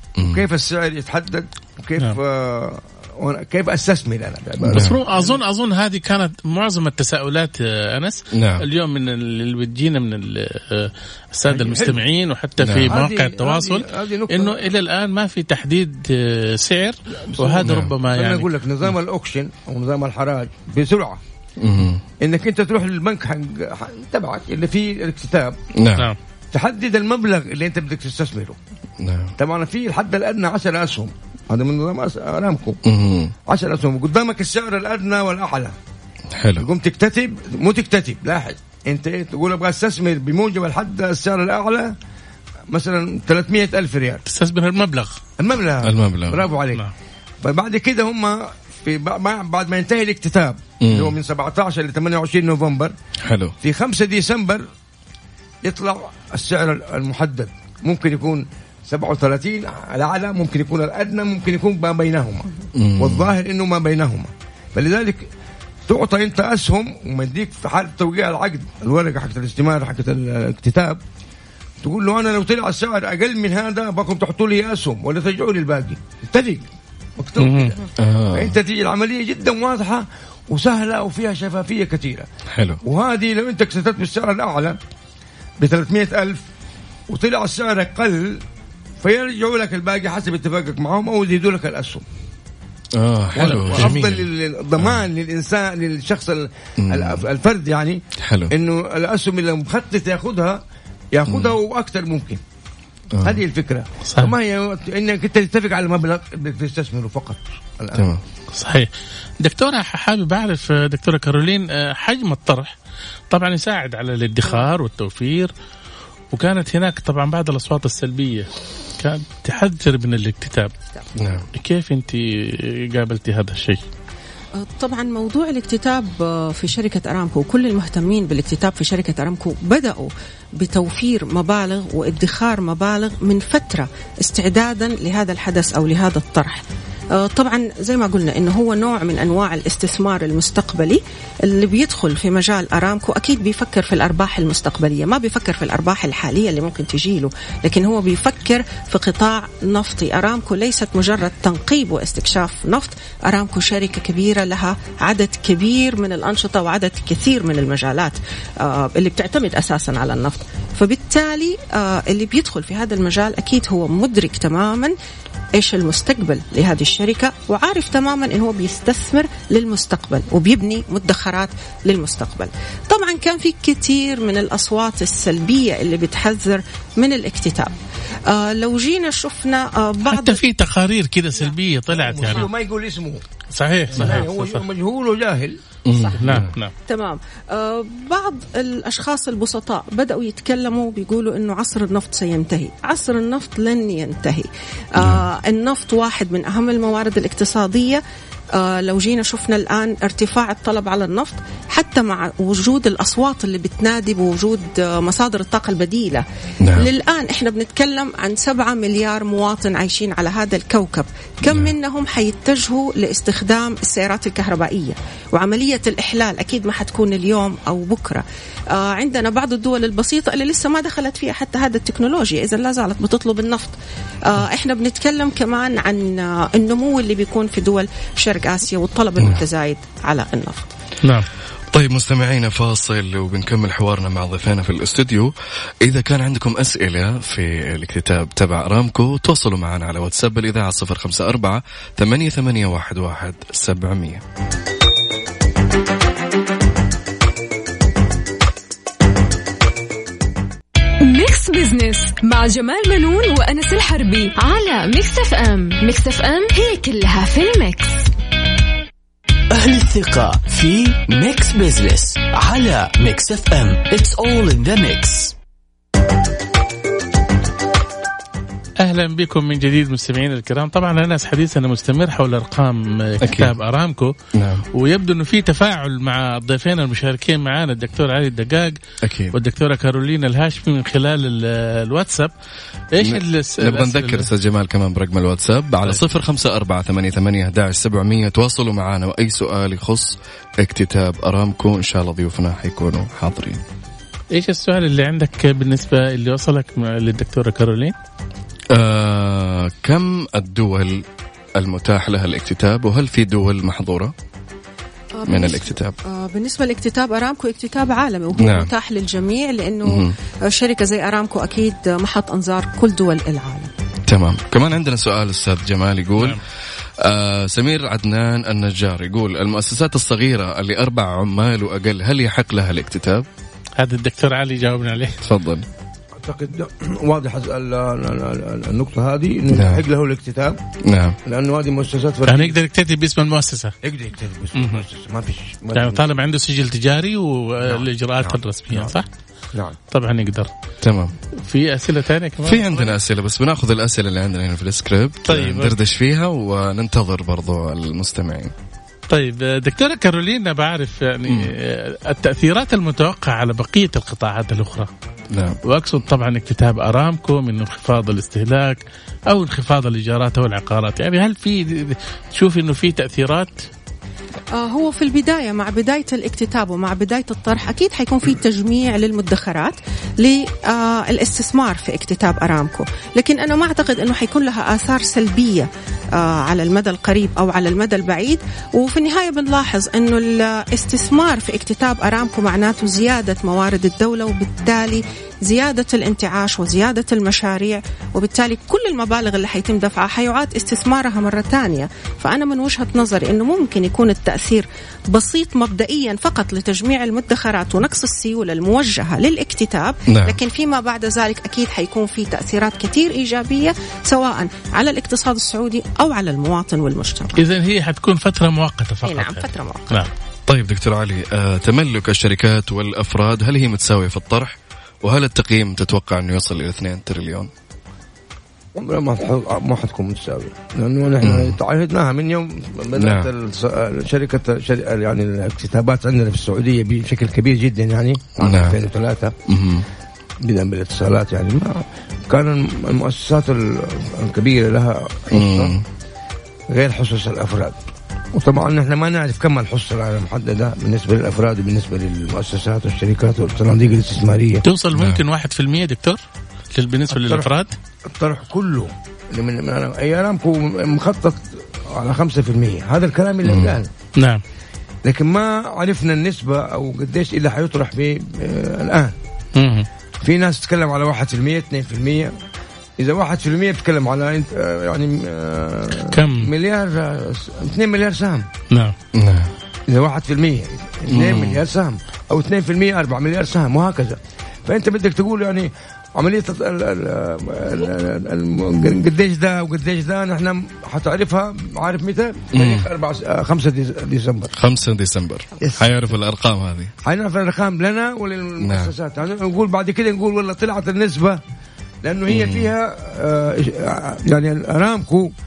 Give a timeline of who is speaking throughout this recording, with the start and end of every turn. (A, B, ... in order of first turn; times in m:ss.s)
0:00.2-0:00.5 A
0:00.2-0:05.4 B
0:04.7-0:05.0 A
0:04.7-0:18.5 C
0:08.3-0:08.6 A
0:11.5-0:12.0 B
0:12.6-0:12.9 A
0:12.8-0:14.6 B
0:17.1-0:21.2 B
0:17.6-0:17.9 A
0:21.6-0:22.0 A
0:22.2-0:25.6 B
0:25.8-0:26.1 A
0:26.5-0:28.6 B
0:29.0-0:29.3 A
0:29.4-0:32.8 B
0:32.8-0:33.3 A
0:33.5-0:35.7 B
0:36.4-0:36.6 A
0:36.6-0:42.0 B
0:42.7-0:44.2 B
0:44.3-0:45.2 C
0:45.4-0:46.8 B
0:45.8-0:46.4 A
0:47.4-0:52.9 B
0:50.8-0:51.2 A
0:53.2-0:53.5 A
0:53.6-0:54.6 B
0:55.6-1:05.3 B
1:02.8-1:03.3 A
1:05.9-1:11.0 B
1:11.8-1:22.3 B
1:17.4-1:17.8 C
1:18.0-1:18.6 A
1:22.5-1:22.8 A
1:22.8-1:24.8 B
1:25.6-1:26.4 B
1:27.1-1:28.4 B
1:29.0-1:32.0 B
1:33.0-1:34.2 A
1:33.4-1:42.4 B
1:36.8-1:37.2 A
1:38.2-1:38.5 A
1:41.3-1:41.5 A
1:43.1-1:43.4 A
1:43.2-1:48.1 B
1:44.1-1:44.3 C
1:47.9-1:48.2 A
1:48.5-1:48.9 C
1:49.4-1:52.8 C
1:53.3-1:55.5 C
1:56.3-2:00.7 C
2:01.2-2:01.5 A
2:01.5-2:03.8 C
2:04.5-2:44.9 D
2:45.6-2:57.8 D
2:58.3-3:00.4 D
3:00.0-3:02.5 C
3:01.9-3:03.2 B
3:03.5-3:04.6 C
3:03.9-3:05.6 B
3:05.8-3:06.5 A
3:05.9-3:18.0 D
3:06.2-3:06.7 C
3:15.0-3:15.3 A
3:18.5-3:43.7 D
3:26.6-3:26.9 A
3:31.4-3:31.7 A
3:44.3-3:50.7 D
3:51.7-3:55.3 A
3:55.8-4:04.2 A
4:11.0-4:18.1 E
4:19.5-4:25.4 F
4:28.8-4:34.2 C
4:33.2-4:33.5 A
4:34.3-4:34.6 A
4:34.7-4:38.8 C
4:39.0-4:39.4 A
4:39.3-4:42.3 C
4:42.9-4:44.3 C
4:43.0-4:53.6 A
4:54.3-4:57.9 C
4:58.7-5:01.0 A
5:01.6-5:04.1 A
5:05.1-5:13.7 D
5:05.3-5:05.9 A
5:08.4-5:08.7 A
5:09.8-5:10.1 A
5:14.1-5:16.4 A
5:17.0-5:23.3 A
5:23.8-5:25.2 C
5:25.2-5:25.6 A
5:26.2-5:30.6 B
5:29.5-5:29.8 A
5:30.8-5:31.2 A
5:31.2-5:32.6 B
5:32.3-5:33.7 C
5:33.8-5:36.2 B
5:34.6-5:34.8 C
5:35.7-5:39.1 C
5:38.2-5:38.9 B
5:39.5-5:39.8 B
5:39.9-5:40.5 C
5:40.8-5:41.1 A
5:41.4-5:42.9 C
5:42.4-5:48.5 A
5:45.3-5:45.8 C
5:49.1-5:54.9 C
5:55.3-5:55.6 A
5:55.6-6:03.7 C
6:04.5-6:47.4 D
6:40.1-6:40.4 A
6:47.4-6:50.1 C
6:49.0-6:50.1 D
6:50.5-6:57.5 A
6:58.7-7:09.4 B
7:01.2-7:01.6 A
7:03.0-7:03.3 A
7:08.4-7:08.8 A
7:09.5-7:09.9 A
7:10.4-7:15.7 B
7:15.3-7:15.8 A
7:16.7-7:17.8 B
7:18.3-7:24.6 B
7:24.6-7:26.2 C
7:24.9-7:25.2 A
7:26.7-7:27.7 C
7:27.1-7:27.5 B
7:28.1-7:33.9 B
7:33.5-7:33.8 A
7:34.2-7:34.4 C
7:35.0-7:39.1 B
7:39.6-7:39.9 C
7:40.2-7:42.3 B
7:43.0-7:48.4 B
7:46.1-7:46.5 C
7:49.1-7:49.5 A
7:49.9-8:04.5 B
7:51.1-7:51.6 A
8:02.5-8:02.9 A
8:04.6-8:06.9 A
8:05.6-8:05.9 B
8:07.0-8:11.4 B
8:08.6-8:08.9 A
8:12.0-8:15.3 B
8:12.3-8:12.7 A